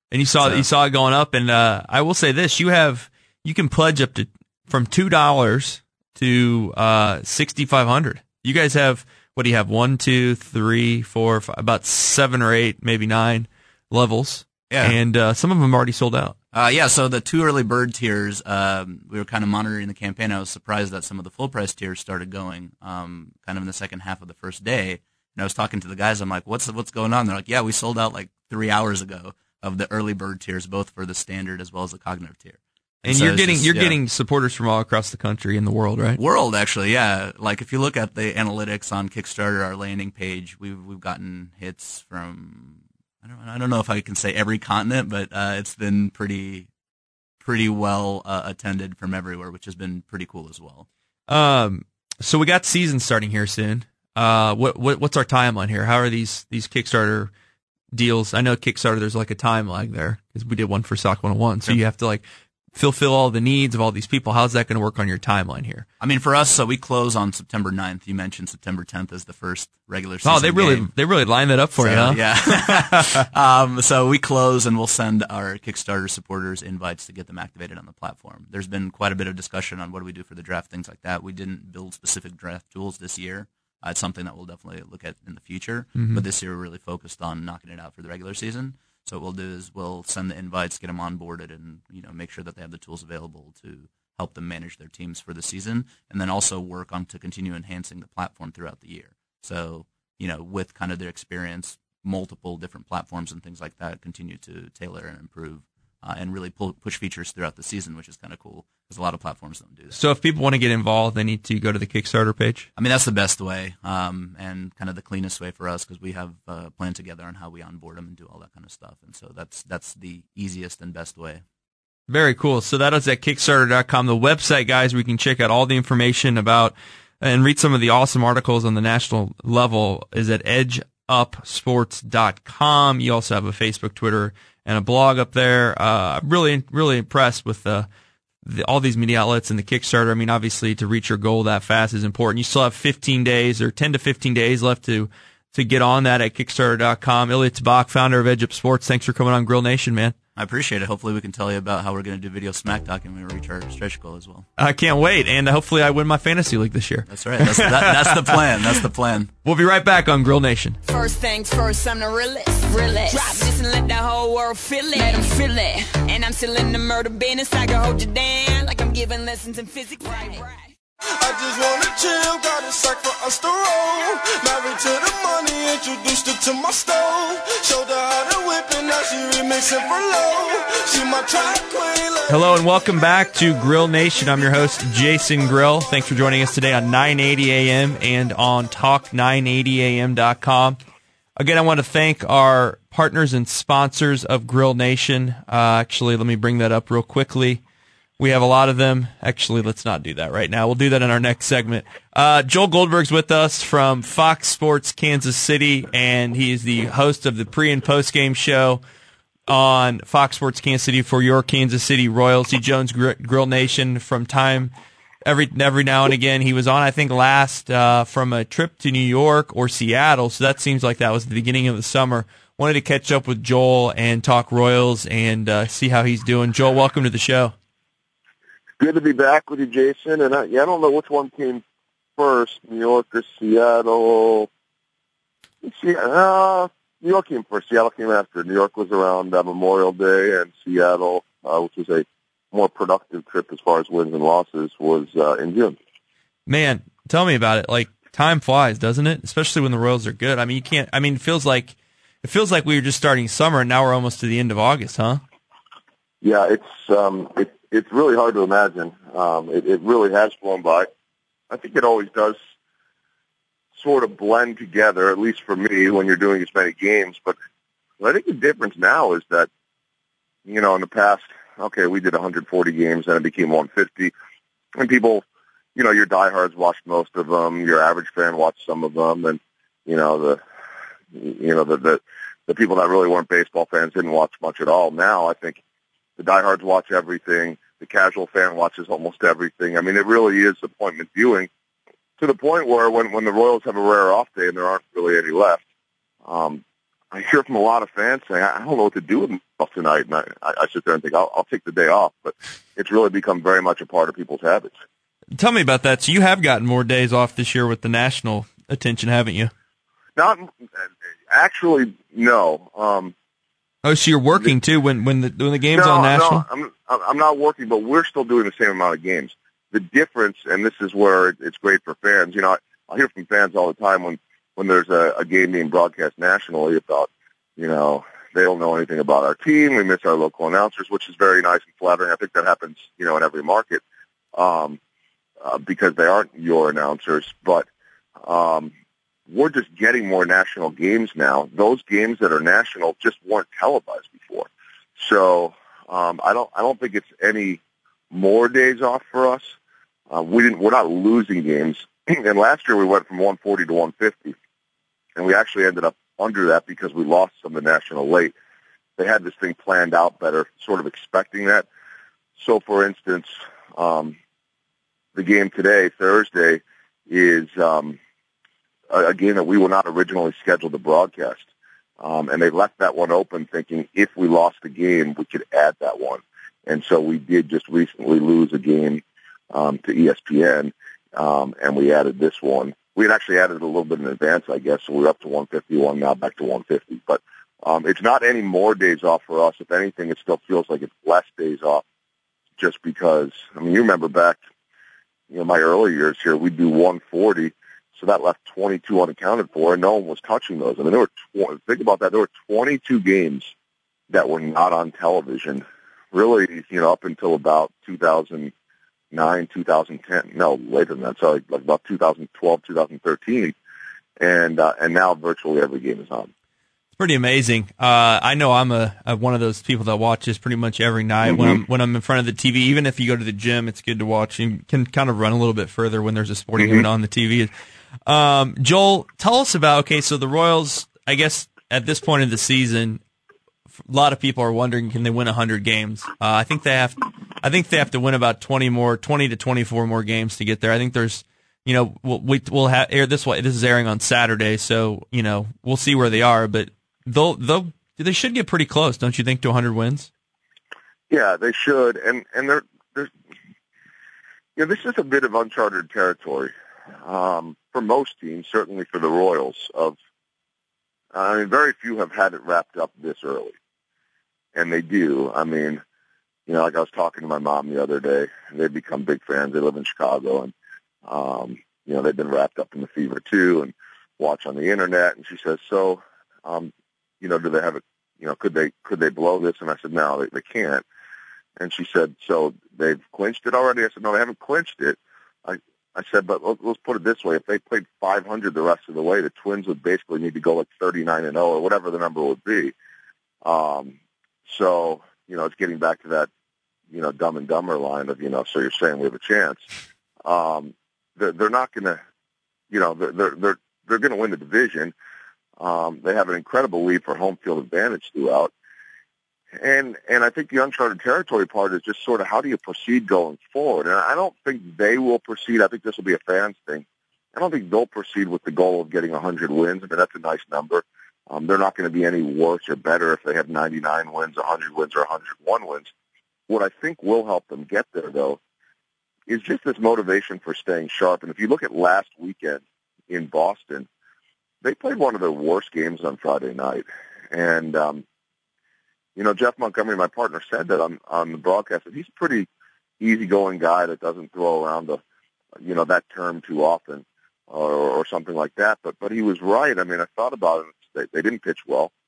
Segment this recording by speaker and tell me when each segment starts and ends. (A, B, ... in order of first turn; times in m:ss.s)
0:00.1-0:16.3 A
0:00.4-0:00.6 B
0:14.7-0:15.0 B
0:16.5-0:34.0 B
0:33.0-0:36.2 A
0:36.2-0:46.7 B
0:47.4-0:50.8 B
0:51.3-0:57.3 A
0:57.9-1:05.8 A
1:06.0-1:10.9 B
1:10.2-1:13.2 A
1:11.8-1:50.0 B
1:26.0-1:26.2 A
1:49.9-1:52.7 A
1:52.8-2:01.4 B
2:02.1-2:17.9 A
2:18.4-2:30.1 A
2:30.3-2:34.4 B
2:34.6-2:38.8 A
2:37.1-2:39.3 B
2:39.4-2:40.8 A
2:40.8-2:50.7 C
2:51.2-3:02.5 D
3:02.3-3:10.8 A
3:11.4-3:17.6 A
3:18.2-3:28.8 A
3:29.5-3:34.7 A
3:35.2-3:47.5 A
3:48.8-3:51.6 E
3:52.2-3:54.5 E
3:55.6-4:05.8 E
4:06.5-4:15.2 A
4:16.2-4:20.9 E
4:21.5-4:22.4 E
4:23.8-4:27.4 E
4:28.0-4:29.5 E
4:30.4-4:34.1 E
4:34.8-4:35.2 E
4:35.8-4:40.4 E
4:41.1-4:45.6 E
4:46.2-4:51.5 E
4:52.2-4:55.6 E
4:56.2-5:04.7 E
5:05.4-5:09.5 A
5:10.2-5:10.5 E
5:11.3-5:13.1 E
5:13.8-5:16.4 A
5:15.7-5:33.8 E
5:34.3-5:34.8 E
5:35.4-5:37.7 E
5:38.2-5:38.7 E
5:39.3-5:49.6 E
5:50.1-5:54.4 E
5:55.2-5:58.3 E
5:59.0-6:01.6 E
6:02.4-6:04.2 E
6:05.1-6:08.0 E
6:08.9-6:11.5 E
6:12.0-6:31.8 E
6:32.6-6:34.4 E
6:35.3-6:43.5 E
6:44.1-6:48.5 E
6:49.1-6:53.5 E
6:54.2-6:56.3 E
6:57.0-7:07.5 A
7:01.2-7:01.6 E
7:08.0-7:13.0 A
7:13.9-7:30.1 A
7:31.1-7:33.1 E
7:34.6-7:36.5 E
7:37.0-7:39.9 E
7:41.1-7:43.5 E
7:44.5-7:45.8 E
7:46.5-7:50.5 E
7:51.0-8:00.8 E
8:01.6-8:12.7 E
8:13.4-8:13.9 E
8:14.4-8:16.3 E
8:16.9-8:19.7 E
8:20.2-8:22.0 E
8:22.7-8:24.9 E
8:25.6-8:28.5 E
8:29.6-8:45.9 E
8:46.5-8:48.4 E
8:49.3-8:53.9 E
8:54.6-8:58.0 E
8:59.2-9:02.5 E
9:03.0-9:05.0 E
9:05.6-9:11.9 E